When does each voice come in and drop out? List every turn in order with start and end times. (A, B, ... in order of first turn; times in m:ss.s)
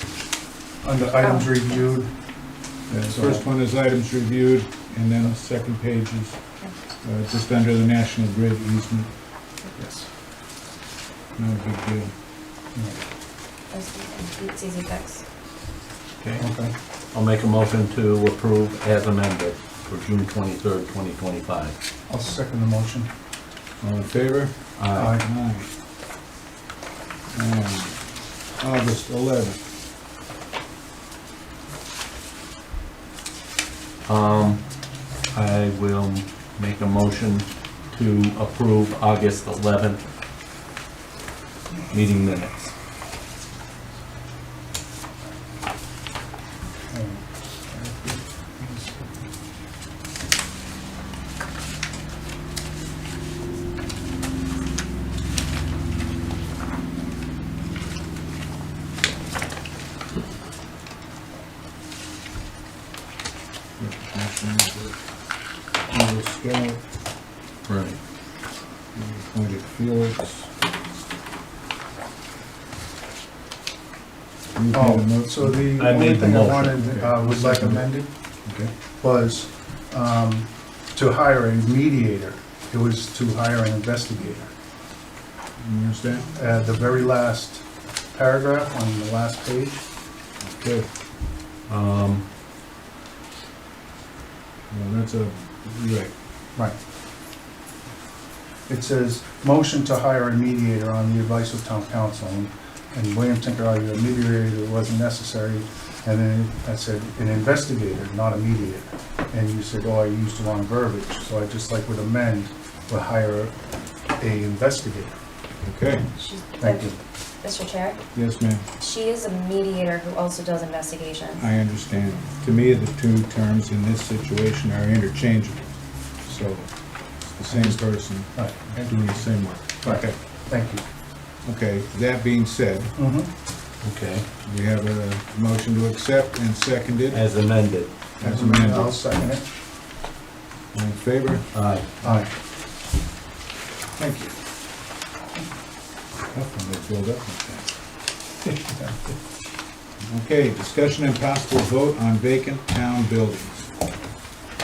0:00.8-0:02.1 A
0:02.9-0:06.4 B
0:03.1-0:03.4 A
0:07.0-0:09.1 B
0:09.7-0:10.1 A
0:11.4-0:12.1 B
0:12.7-0:13.0 A
0:13.7-0:15.2 C
0:16.4-0:16.7 A
0:17.1-0:21.7 D
0:22.1-0:23.1 A
0:23.8-0:25.7 B
0:24.8-0:25.2 D
0:24.9-0:25.2 A
0:27.3-0:28.0 B
0:28.6-0:29.6 B
0:34.0-0:34.6 D
0:35.3-0:40.0 D
0:41.9-0:42.7 D
0:46.8-0:49.2 A
1:03.8-1:05.0 B
1:05.9-1:06.8 B
1:07.7-1:08.0 D
1:08.9-1:10.5 B
1:14.5-1:15.8 B
1:14.7-1:18.1 A
1:15.8-1:17.6 D
1:16.6-1:17.8 B
1:18.4-1:18.7 B
1:19.0-1:24.5 A
1:25.6-1:26.3 B
1:26.3-1:29.8 A
1:30.4-1:30.9 B
1:31.7-1:32.2 D
1:34.7-1:36.1 B
1:38.7-1:53.5 A
1:54.2-1:55.2 A
1:55.6-1:56.1 B
1:56.2-1:58.0 C
1:56.6-1:57.0 A
1:58.1-1:58.6 B
1:58.8-2:01.4 C
2:01.4-2:10.1 B
2:07.5-2:07.8 A
2:08.3-2:08.8 A
2:09.8-2:10.8 A
2:11.4-2:13.0 B
2:13.0-2:13.3 A
2:13.8-2:14.2 D
2:14.4-2:17.2 B
2:17.1-2:17.9 D
2:18.2-2:19.0 B
2:18.2-2:19.4 A
2:20.7-2:21.5 B
2:21.5-2:21.9 D
2:22.0-2:22.3 A
2:24.0-2:24.3 B
2:26.3-2:27.7 B
2:30.0-2:33.7 B